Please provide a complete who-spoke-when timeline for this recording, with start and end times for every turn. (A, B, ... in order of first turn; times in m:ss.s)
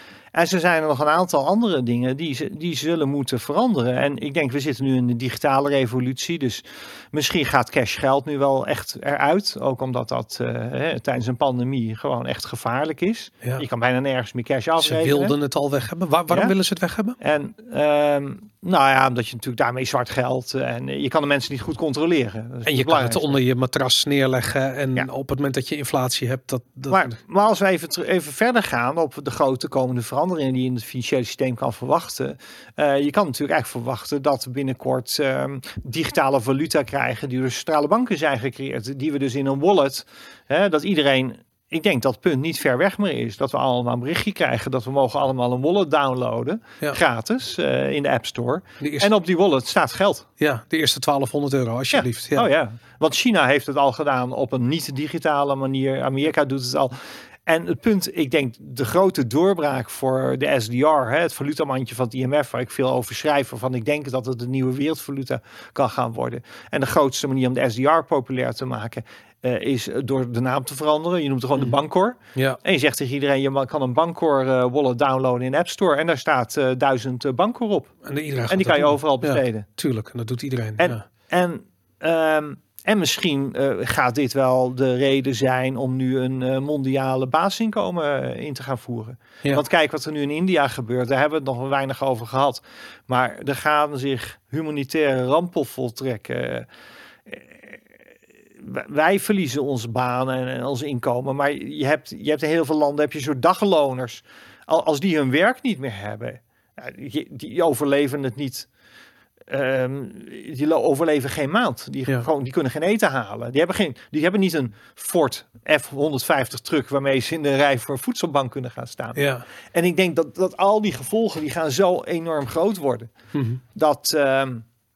0:00.3-0:15.3 A
0:14.8-0:17.2 B
0:17.2-0:23.4 A
0:22.6-0:27.1 B
0:26.9-0:50.3 A
0:48.8-0:49.1 B
0:50.4-0:52.5 B
0:51.9-1:17.9 A
1:18.0-1:21.0 B
1:18.5-1:19.6 A
1:20.8-1:36.7 A
1:37.2-1:37.8 A
1:38.6-1:48.7 A
1:49.5-2:03.1 A
1:59.2-1:59.4 B
2:03.3-2:03.6 B
2:03.7-2:04.6 A